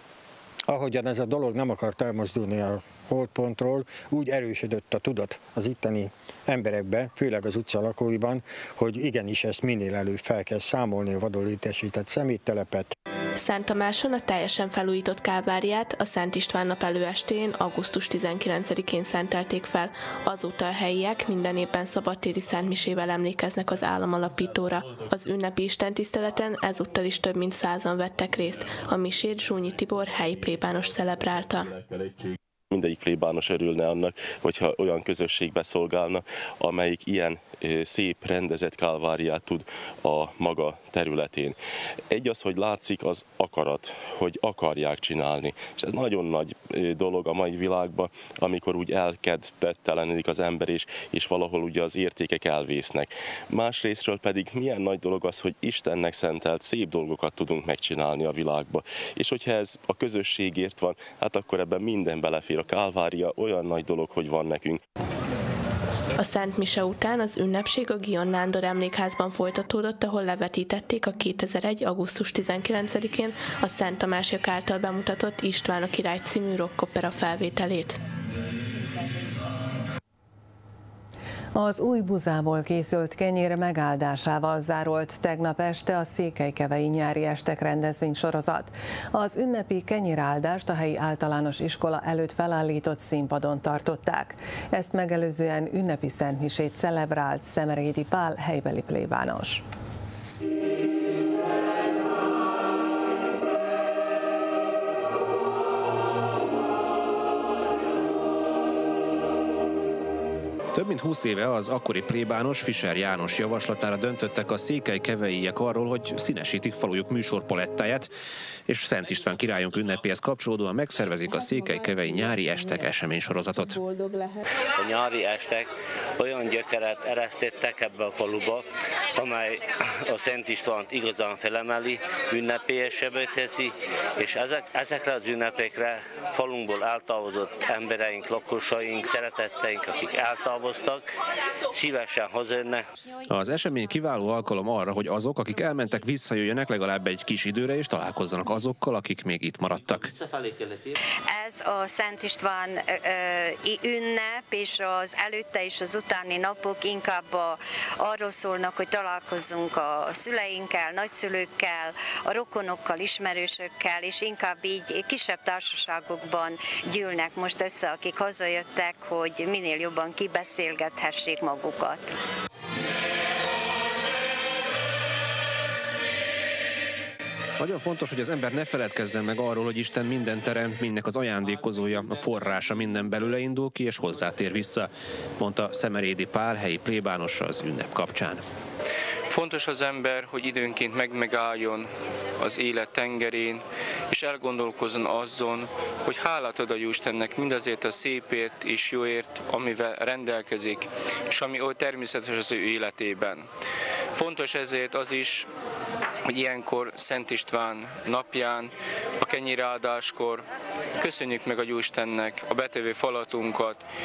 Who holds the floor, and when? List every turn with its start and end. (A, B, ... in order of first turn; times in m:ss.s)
0:00.7-0:12.9 A
0:13.4-0:31.7 B
0:32.7-0:41.6 C
0:42.1-1:04.8 C
1:06.2-1:18.0 B
1:21.6-1:39.6 D
1:50.7-1:58.1 E
1:58.7-2:03.8 E
2:04.8-2:08.6 F
2:09.2-2:21.1 F
2:21.7-2:22.8 F
2:23.3-2:30.1 E
2:31.3-2:52.1 G
2:57.6-3:08.4 E
3:09.3-3:23.5 H
3:24.2-3:25.5 H
3:26.3-3:30.5 H
3:31.0-3:33.8 H